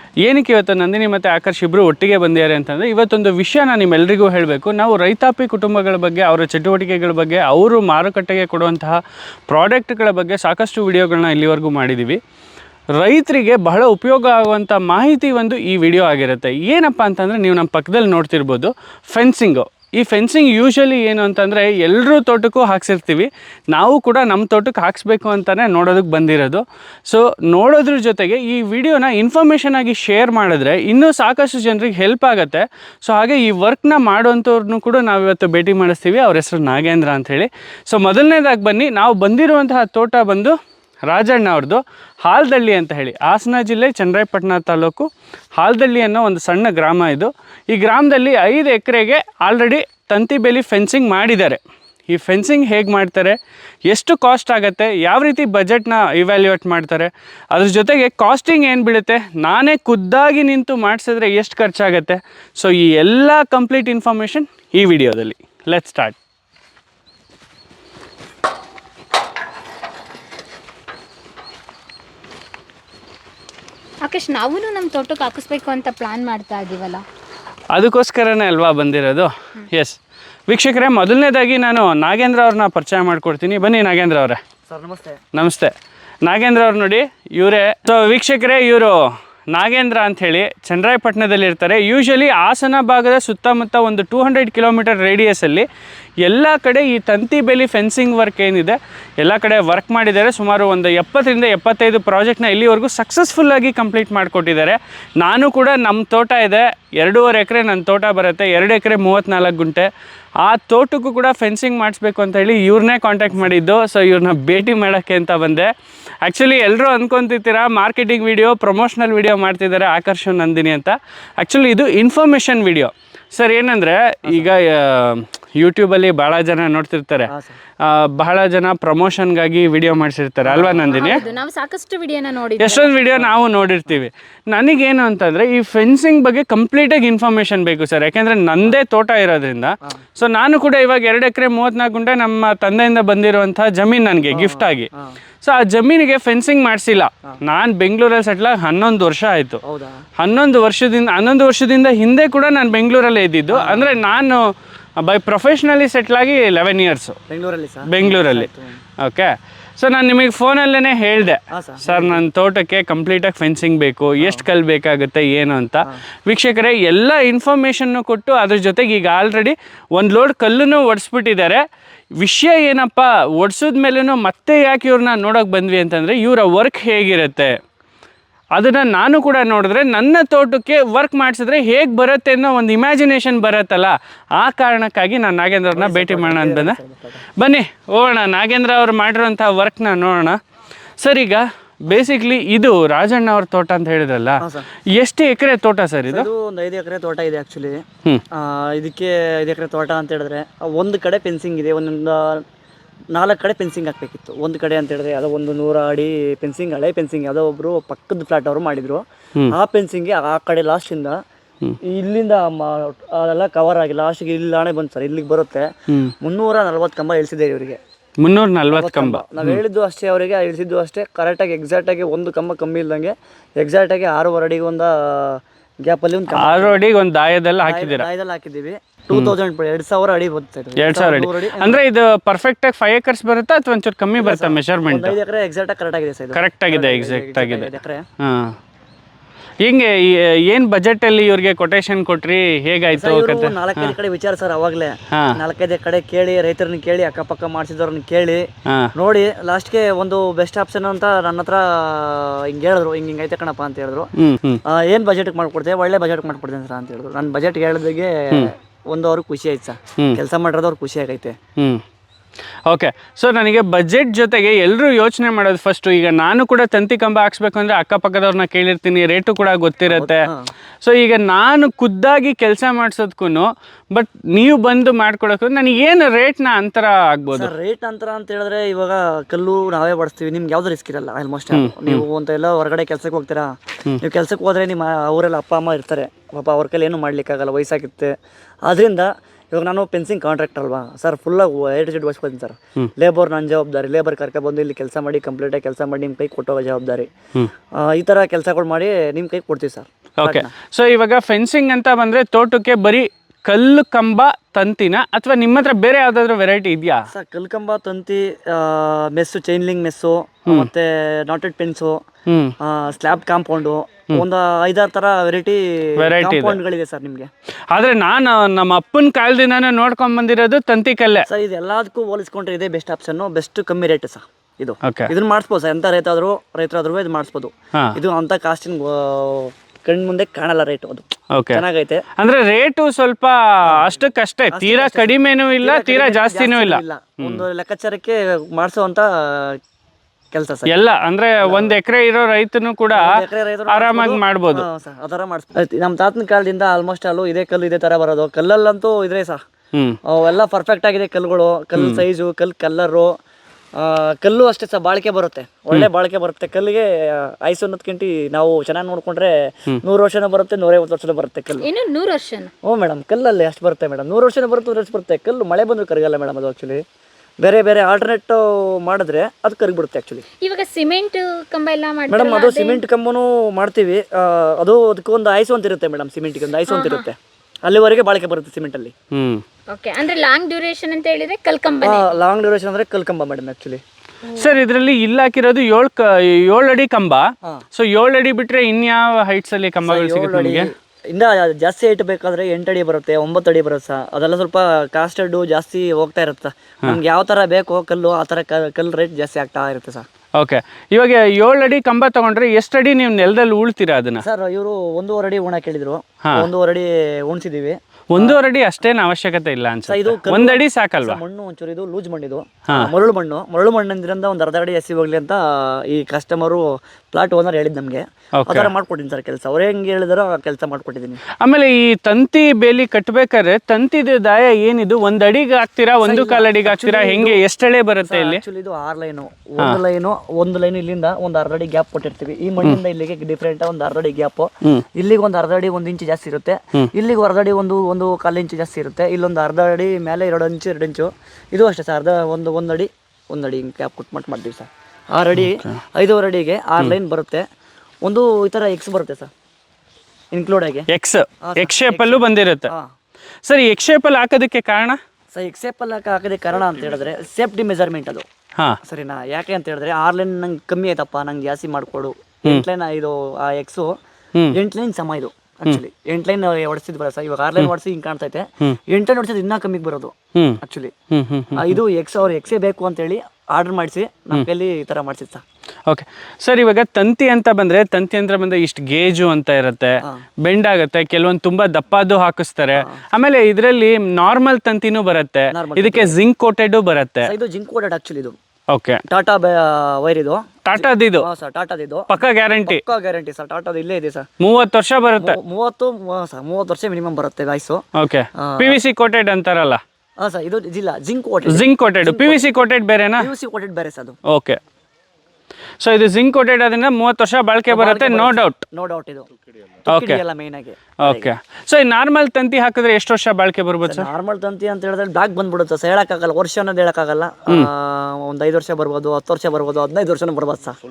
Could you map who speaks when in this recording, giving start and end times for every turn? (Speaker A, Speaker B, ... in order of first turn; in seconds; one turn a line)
Speaker A: 0.2-12.2
Speaker A: 13.0-40.5
Speaker A: 41.1-53.4
Speaker A: 53.9-66.2
Speaker B: 74.0-77.0
Speaker A: 77.7-80.0
Speaker A: 80.5-84.4
Speaker C: 84.7-85.2
Speaker A: 85.3-85.7
Speaker A: 86.3-89.0
Speaker A: 89.5-95.7
Speaker A: 96.2-109.9
Speaker A: 110.4-115.7
Speaker A: 116.2-127.3
Speaker C: 127.3-127.6
Speaker A: 127.8-131.2
Speaker C: 130.4-131.4
Speaker B: 130.9-133.0
Speaker A: 132.6-144.9
Speaker C: 144.3-145.2
Speaker A: 145.4-149.6
Speaker C: 149.6-150.0
Speaker A: 150.2-154.4
Speaker C: 153.5-154.0
Speaker A: 155.0-157.2
Speaker C: 157.3-158.8
Speaker A: 157.9-158.5
Speaker A: 159.0-171.6
Speaker C: 161.5-162.2
Speaker C: 164.2-164.4
Speaker A: 172.2-177.5
Speaker A: 178.6-186.8
Speaker C: 185.7-187.2
Speaker A: 187.4-190.4
Speaker A: 191.0-194.4
Speaker C: 194.4-194.7
Speaker A: 194.9-196.3
Speaker C: 196.1-202.4
Speaker C: 203.2-211.2
Speaker C: 211.8-215.7
Speaker C: 216.2-217.8
Speaker A: 218.2-219.6
Speaker C: 218.7-226.8
Speaker A: 226.4-228.1
Speaker C: 227.6-231.8
Speaker A: 230.8-235.2
Speaker C: 234.2-238.0
Speaker A: 236.3-238.6
Speaker A: 239.6-243.9
Speaker C: 242.9-254.1
Speaker A: 254.2-254.6
Speaker C: 254.7-261.4
Speaker A: 262.7-270.3
Speaker C: 269.9-270.5
Speaker A: 270.8-277.5
Speaker C: 277.3-283.5
Speaker A: 281.5-282.0
Speaker C: 284.0-288.1
Speaker C: 288.6-297.1
Speaker C: 297.8-300.5
Speaker A: 300.2-307.0
Speaker C: 307.1-312.0
Speaker A: 312.3-312.5
Speaker C: 312.6-317.3
Speaker A: 316.0-316.6
Speaker A: 317.7-321.3
Speaker C: 321.3-332.0
Speaker A: 324.8-325.1
Speaker A: 331.3-331.6
Speaker A: 332.2-337.4
Speaker C: 334.5-339.6
Speaker C: 340.3-340.7
Speaker A: 340.7-343.1
Speaker C: 341.4-341.8
Speaker C: 342.9-349.4
Speaker A: 343.7-344.6
Speaker C: 350.1-353.2
Speaker A: 351.8-352.0
Speaker C: 353.8-361.7
Speaker B: 361.6-362.5
Speaker C: 362.6-366.8
Speaker C: 367.4-370.2
Speaker B: 370.4-372.8
Speaker C: 372.1-378.9
Speaker B: 376.7-377.1
Speaker A: 379.1-379.4
Speaker B: 379.7-382.2
Speaker C: 381.8-383.8
Speaker B: 384.3-384.6
Speaker A: 384.4-390.7
Speaker C: 389.9-400.1
Speaker A: 400.4-404.2
Speaker C: 404.2-408.4
Speaker A: 408.1-411.2
Speaker C: 409.9-421.2
Speaker A: 418.4-418.7
Speaker A: 421.4-428.4
Speaker C: 426.0-427.4
Speaker C: 428.0-447.4
Speaker A: 445.4-445.8
Speaker C: 448.0-449.3
Speaker C: 450.3-450.9
Speaker A: 450.9-452.7
Speaker C: 451.4-452.9
Speaker A: 453.5-455.0
Speaker C: 455.3-458.2
Speaker C: 458.9-464.0
Speaker C: 464.5-470.9
Speaker A: 471.1-471.8
Speaker C: 471.6-475.4
Speaker A: 475.9-487.3
Speaker C: 485.5-486.2
Speaker C: 487.2-488.4
Speaker A: 488.7-489.0
Speaker C: 489.1-494.3
Speaker A: 490.7-491.3
Speaker A: 492.1-492.8
Speaker A: 494.4-495.4
Speaker C: 495.2-497.8
Speaker A: 498.0-499.8
Speaker C: 498.4-498.8
Speaker C: 500.2-502.7
Speaker A: 501.5-503.3
Speaker C: 503.2-504.2
Speaker A: 504.3-504.6
Speaker A: 505.8-508.7
Speaker C: 507.7-509.3
Speaker C: 509.9-511.3
Speaker A: 509.9-510.2
Speaker A: 511.0-514.1
Speaker C: 513.9-520.8